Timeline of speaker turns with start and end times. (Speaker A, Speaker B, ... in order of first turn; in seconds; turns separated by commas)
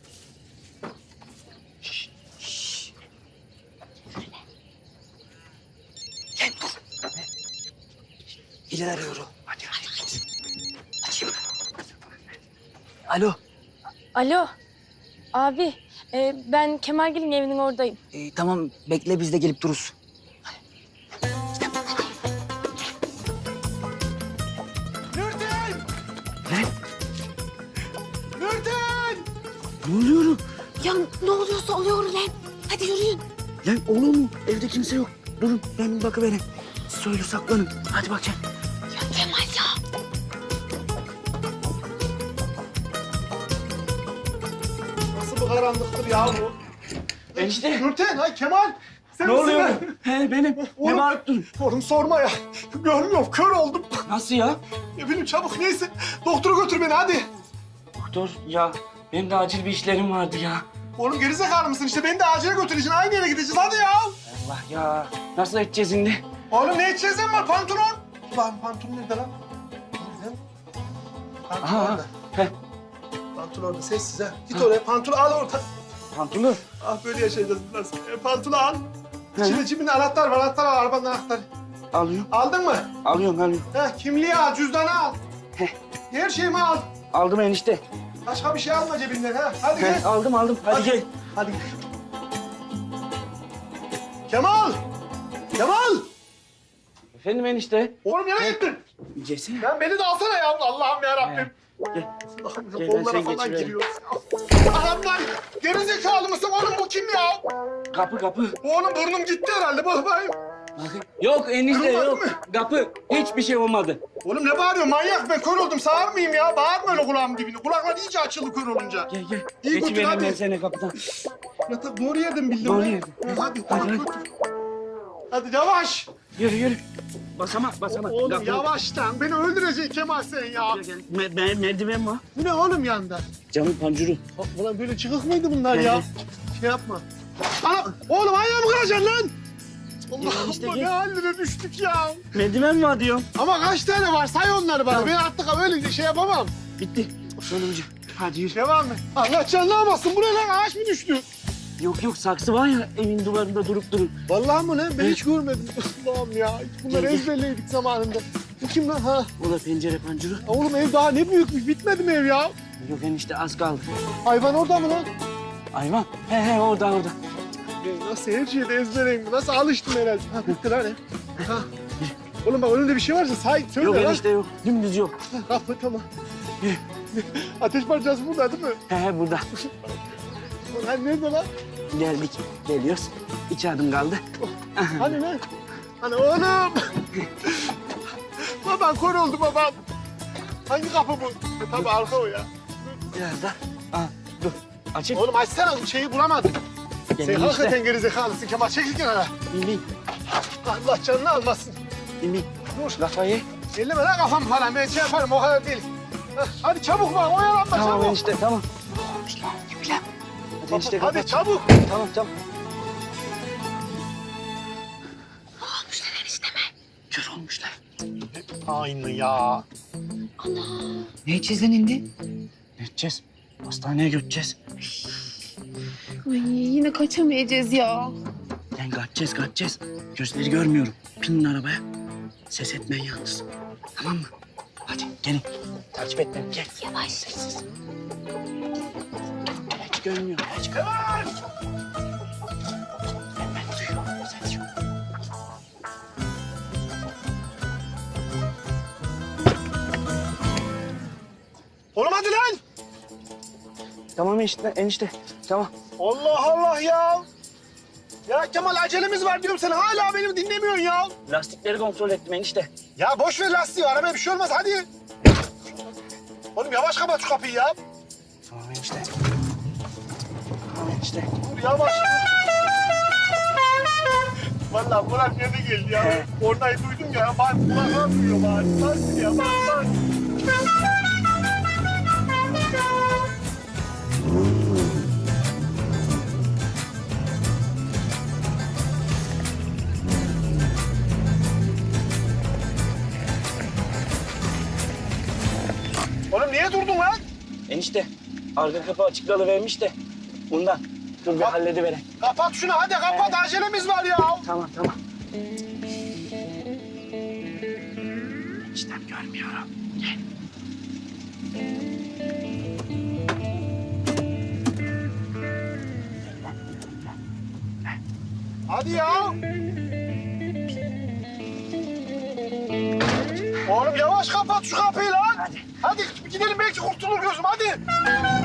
Speaker A: 13.1-13.4, Speaker B: 14.2-14.5, Speaker B: 15.3-18.0, Speaker A: 18.2-19.9, Speaker C: 25.1-25.8, Speaker C: 28.4-29.3, Speaker D: 29.8-30.4, Speaker E: 30.8-33.2, Speaker D: 33.6-38.4, Speaker E: 39.0-39.8, Speaker C: 45.1-46.6, Speaker C: 47.4-49.9, Speaker D: 47.4-47.9, Speaker D: 49.2-51.5, Speaker C: 50.6-54.1, Speaker D: 54.1-54.6, Speaker C: 55.0-57.3, Speaker D: 58.0-60.7, Speaker C: 61.0-64.2, Speaker D: 64.3-66.2, Speaker C: 66.5-69.3, Speaker C: 70.0-70.4, Speaker C: 71.5-72.1, Speaker D: 71.6-72.5, Speaker C: 73.3-75.7, Speaker D: 76.1-76.6, Speaker C: 76.8-78.8, Speaker D: 79.4-79.7, Speaker C: 79.4-81.5, Speaker D: 81.9-82.3, Speaker C: 82.3-82.9, Speaker D: 83.0-83.7, Speaker C: 83.7-85.2, Speaker C: 86.1-86.9, Speaker D: 87.1-87.8, Speaker C: 88.2-90.1, Speaker D: 89.7-91.1, Speaker C: 90.7-91.6, Speaker C: 94.3-94.8, Speaker C: 95.6-96.1, Speaker D: 97.2-98.5, Speaker C: 98.0-98.8, Speaker D: 99.2-99.7, Speaker C: 99.6-101.5, Speaker D: 101.2-102.1, Speaker C: 102.3-107.5, Speaker D: 102.8-103.8, Speaker D: 107.9-108.6, Speaker C: 108.6-110.4, Speaker D: 110.8-114.0, Speaker C: 111.7-112.4, Speaker C: 114.2-120.4, Speaker D: 119.1-121.0, Speaker C: 121.7-124.2, Speaker D: 122.6-124.1, Speaker C: 125.3-126.1, Speaker D: 126.4-126.8, Speaker D: 127.4-128.7, Speaker C: 127.9-130.8, Speaker D: 130.6-132.2, Speaker C: 132.3-133.3, Speaker D: 133.5-134.2, Speaker C: 134.3-136.1, Speaker D: 135.7-136.1, Speaker C: 136.6-137.1, Speaker C: 137.6-139.3, Speaker C: 140.1-142.2, Speaker D: 140.2-140.9, Speaker D: 142.3-143.3, Speaker C: 143.3-146.6, Speaker D: 146.8-148.6, Speaker C: 148.5-151.3, Speaker D: 151.8-154.1, Speaker C: 154.3-159.3, Speaker D: 156.9-157.3, Speaker D: 159.4-160.4, Speaker C: 160.5-162.6, Speaker D: 162.8-163.9, Speaker C: 164.2-165.1, Speaker D: 165.7-167.2, Speaker C: 167.8-171.7, Speaker C: 172.4-174.2, Speaker D: 173.8-175.2, Speaker C: 175.3-176.1, Speaker C: 177.1-178.8, Speaker D: 178.9-179.5, Speaker C: 180.7-181.5, Speaker D: 181.9-184.2, Speaker C: 184.4-185.4, Speaker D: 184.8-185.1, Speaker C: 186.0-186.9, Speaker C: 188.6-189.8, Speaker C: 190.7-192.5, Speaker D: 193.2-195.2, Speaker C: 195.1-196.6, Speaker D: 197.2-197.8, Speaker C: 197.2-199.3, Speaker D: 199.5-199.8, Speaker C: 200.6-201.8, Speaker D: 202.2-203.4, Speaker C: 202.7-203.0, Speaker C: 203.7-208.2, Speaker D: 207.7-208.7, Speaker D: 209.4-210.0, Speaker D: 210.6-212.3, Speaker C: 210.7-211.7, Speaker E: 215.8-216.4, Speaker D: 217.1-217.8, Speaker C: 218.3-219.6, Speaker E: 220.4-221.1, Speaker D: 222.8-224.6, Speaker E: 226.3-228.1, Speaker D: 228.8-231.8, Speaker D: 232.5-233.4, Speaker D: 234.0-234.3, Speaker D: 234.9-237.6, Speaker D: 239.8-240.9, Speaker C: 251.9-252.6, Speaker D: 254.2-255.7, Speaker C: 256.0-257.3, Speaker C: 258.3-261.1, Speaker D: 261.3-262.7, Speaker C: 263.0-264.9, Speaker C: 266.6-267.8, Speaker D: 268.5-269.1, Speaker D: 270.7-271.3, Speaker C: 271.4-272.3, Speaker C: 274.7-279.9, Speaker D: 276.0-276.3, Speaker C: 296.3-297.2, Speaker D: 297.7-299.9, Speaker D: 300.5-302.0, Speaker C: 301.3-301.6, Speaker C: 302.2-304.5, Speaker D: 303.1-303.4, Speaker D: 304.4-305.0, Speaker D: 308.7-309.7, Speaker C: 318.7-319.4, Speaker C: 323.7-327.8